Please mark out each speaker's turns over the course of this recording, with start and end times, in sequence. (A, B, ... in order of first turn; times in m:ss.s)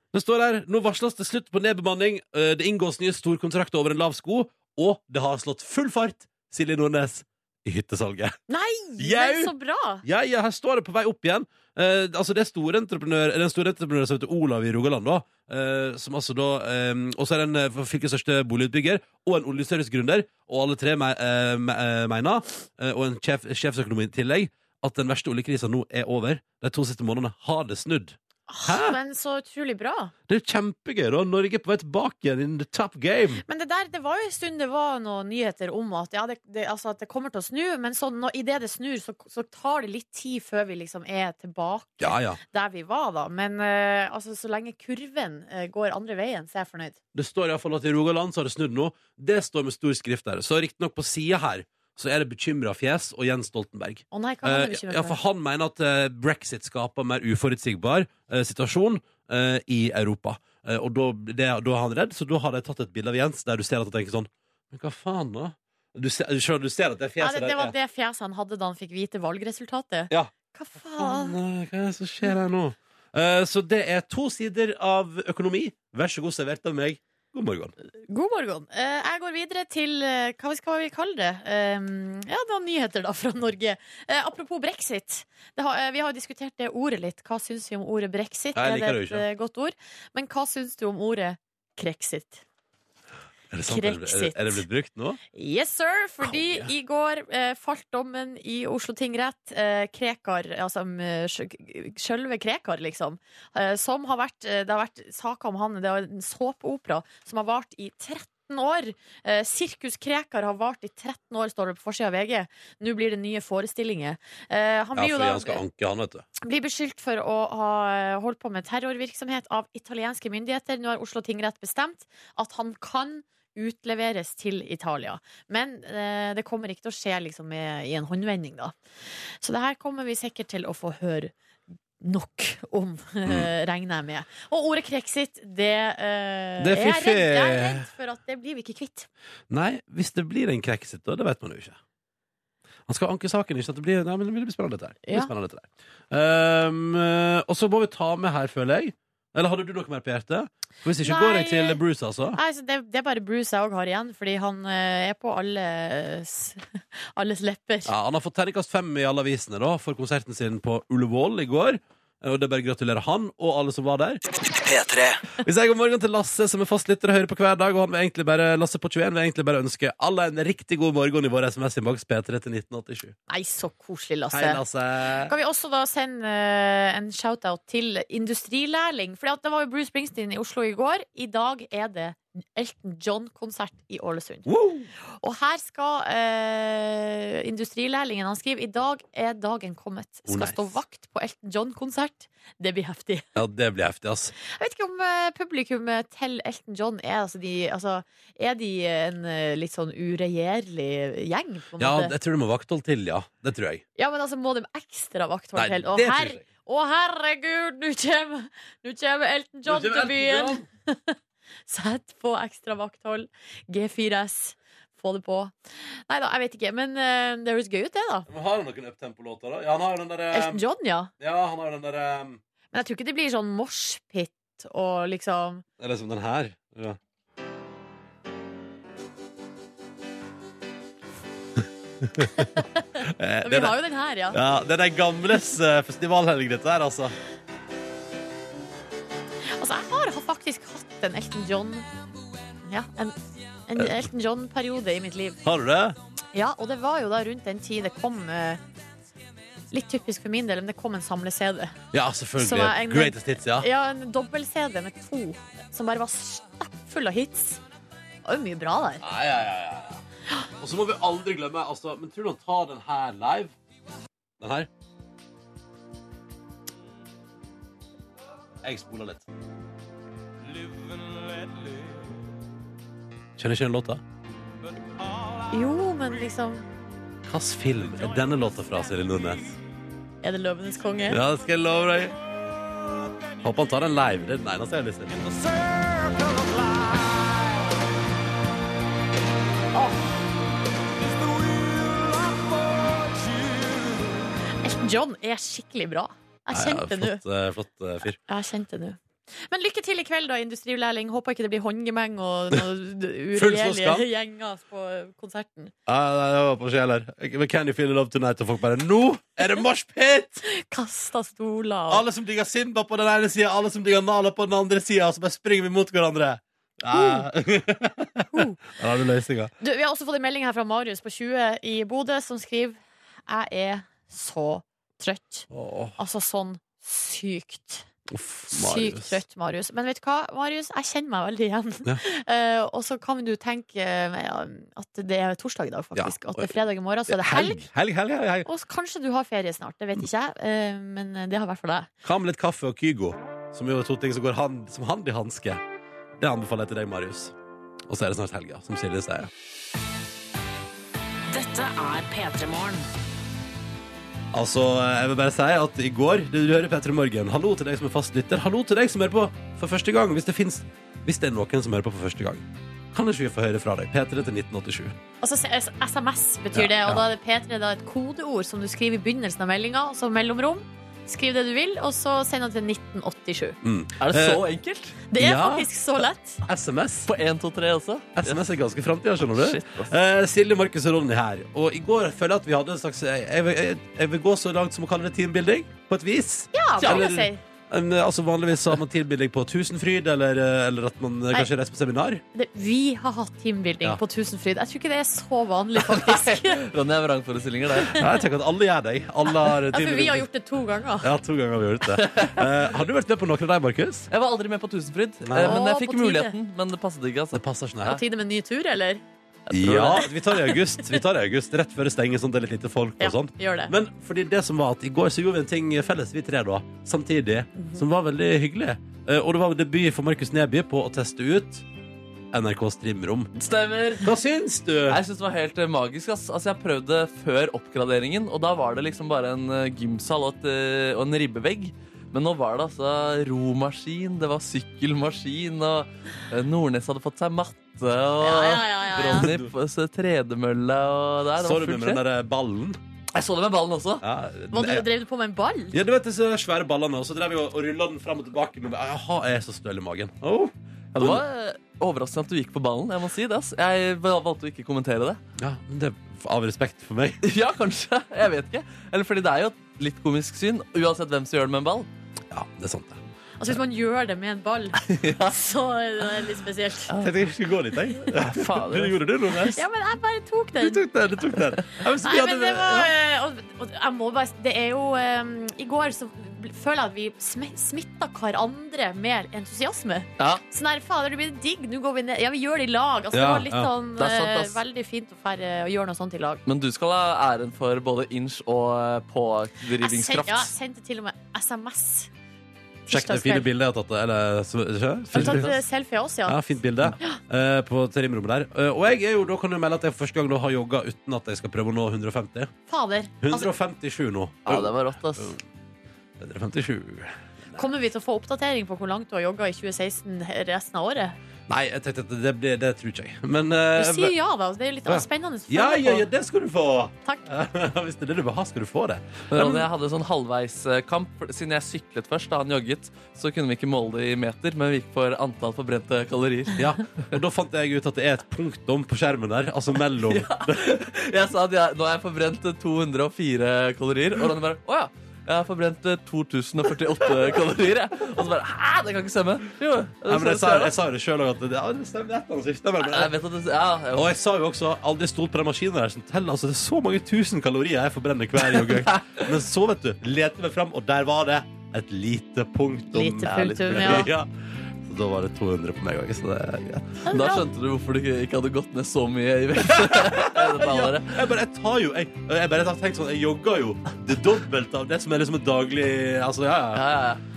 0:00.1-0:08.4 A
0:08.5-0:10.0 B
0:09.0-0:09.5 A
0:10.0-0:29.0 A
0:28.5-0:30.1 B
0:30.3-0:33.4 A
0:33.4-0:47.0 B
0:42.0-0:42.4 A
0:47.1-1:07.7 A
0:54.1-0:55.2 B
1:07.2-1:11.4 B
1:11.0-1:17.7 A
1:18.1-1:32.4 B
1:28.5-1:29.2 A
1:33.5-1:35.2 A
1:33.7-1:34.6 B
1:35.3-1:55.6 B
1:36.2-1:36.7 A
1:54.9-1:56.2 A
1:56.4-2:08.7 B
2:09.4-2:11.3 B
2:12.0-2:19.1 B
2:16.6-2:17.9 A
2:19.5-2:21.8 A
2:22.9-2:32.4 A
2:31.0-2:31.8 B
2:32.3-2:37.9 B
2:37.8-2:44.2 A
2:44.3-2:45.2 C
2:45.4-2:53.1 A
2:53.3-2:54.6 B
2:54.3-2:55.3 A
2:55.3-3:04.5 B
3:04.4-3:04.9 A
3:05.2-3:13.3 B
3:10.3-3:10.8 A
3:13.3-3:14.3 A
3:14.4-3:22.1 B
3:21.8-3:23.8 A
3:24.0-3:31.2 B
3:25.5-3:26.4 A
3:29.6-3:30.6 A
3:31.7-3:35.5 B
3:36.1-3:38.3 B
3:38.3-3:40.6 A
3:40.3-3:41.1 B
3:41.2-3:42.4 A
3:42.7-3:45.6 B
3:45.8-3:47.0 A
3:52.0-3:52.4 A
3:52.3-3:54.4 B
3:53.0-3:53.8 A
3:54.3-3:57.2 A
3:59.5-4:01.8 B
4:02.7-4:03.2 B
4:03.7-4:05.4 B
4:05.4-4:06.0 A
4:06.3-4:08.6 B
4:09.7-4:11.8 B
4:11.9-4:13.7 A
4:12.4-4:17.6 B
4:18.2-4:19.0 B
4:19.0-4:20.0 A
4:20.6-4:23.5 A
4:24.4-4:24.7 A
4:28.6-4:29.2 A
4:33.4-4:34.0 A
4:35.5-4:36.6 B
4:37.2-4:39.6 A
4:40.2-4:41.2 B
4:41.1-4:42.2 A
4:43.4-4:45.5 A
4:49.7-4:50.0 B
4:54.6-4:57.2 B
4:56.5-4:58.2 A
4:58.2-5:05.7 B
5:03.3-5:04.0 A
5:05.8-5:10.4 A
5:10.4-5:12.0 B
5:11.9-5:19.5 A
5:16.9-5:17.2 B
5:18.3-5:18.6 B
5:19.6-5:27.8 B
5:25.5-5:26.0 A
5:28.1-5:29.2 A
5:28.5-5:37.6 B
5:35.9-5:36.5 A
5:37.1-5:38.5 A
5:38.4-5:41.9 B
5:42.0-5:45.6 A
5:46.2-5:47.3 A
5:47.9-5:49.3 A
5:51.3-5:52.8 C
5:54.3-6:04.9 A
6:05.2-6:13.6 B
6:06.5-6:07.0 A
6:13.6-6:14.4 A
6:14.0-6:15.0 D
6:15.1-6:16.4 B
6:15.2-6:15.7 A
6:16.4-6:17.1 A
6:17.1-6:18.4 D
6:18.2-6:32.2 A
6:19.3-6:19.9 D
6:26.5-6:27.4 B
6:32.3-6:36.6 B
6:35.9-6:38.0 D
6:37.9-6:40.3 A
6:39.7-6:41.1 B
6:41.0-6:44.1 A
6:42.0-6:42.4 D
6:44.1-6:47.4 D
6:45.2-6:45.6 A
6:45.4-6:46.3 B
6:47.3-6:48.0 A
6:47.8-6:49.0 B
6:49.5-6:50.1 D
6:49.5-7:01.6 A
6:50.3-6:51.0 B
6:53.0-6:53.7 B
6:57.6-6:57.8 B
7:02.3-7:03.3 A
7:03.4-7:04.1 D
7:04.0-7:05.0 A
7:04.9-7:22.0 D
7:18.2-7:19.3 B
7:19.1-7:19.5 A
7:21.4-7:22.8 A
7:23.1-7:24.0 D
7:24.0-7:24.9 A
7:24.5-7:25.8 B
7:25.7-7:31.2 A
7:30.9-7:35.2 D
7:35.4-7:37.2 A
7:37.2-7:41.9 D
7:42.3-7:43.0 A
7:43.4-7:46.9 B
7:44.9-7:45.3 D
7:47.0-7:49.6 A
7:48.1-7:48.9 D
7:49.5-7:50.8 B
7:50.6-7:52.9 A
7:52.0-8:06.4 B
8:03.1-8:03.7 A
8:04.0-8:04.6 D
8:06.4-8:10.5 D
8:09.8-8:12.1 B
8:12.9-8:13.5 B
8:12.9-8:15.5 A
8:15.1-8:16.4 B
8:15.1-8:15.5 D
8:16.2-8:22.5 A
8:22.7-8:23.5 B
8:23.2-8:25.4 A
8:24.4-8:25.4 D
8:26.2-8:27.6 A
8:27.5-8:31.2 B
8:31.5-8:34.1 A
8:33.8-8:36.1 B
8:34.9-8:39.7 A
8:39.3-8:46.6 D
8:46.6-8:50.6 A
8:50.0-9:00.7 D
9:00.1-9:03.1 A
9:02.8-9:04.1 D
9:03.9-9:14.3 A
9:12.9-9:14.1 B
9:13.3-9:14.0 D
9:14.8-9:17.0 A
9:17.0-9:17.4 B
9:17.1-9:21.2 D
9:19.6-9:26.8 A
9:26.7-9:27.2 D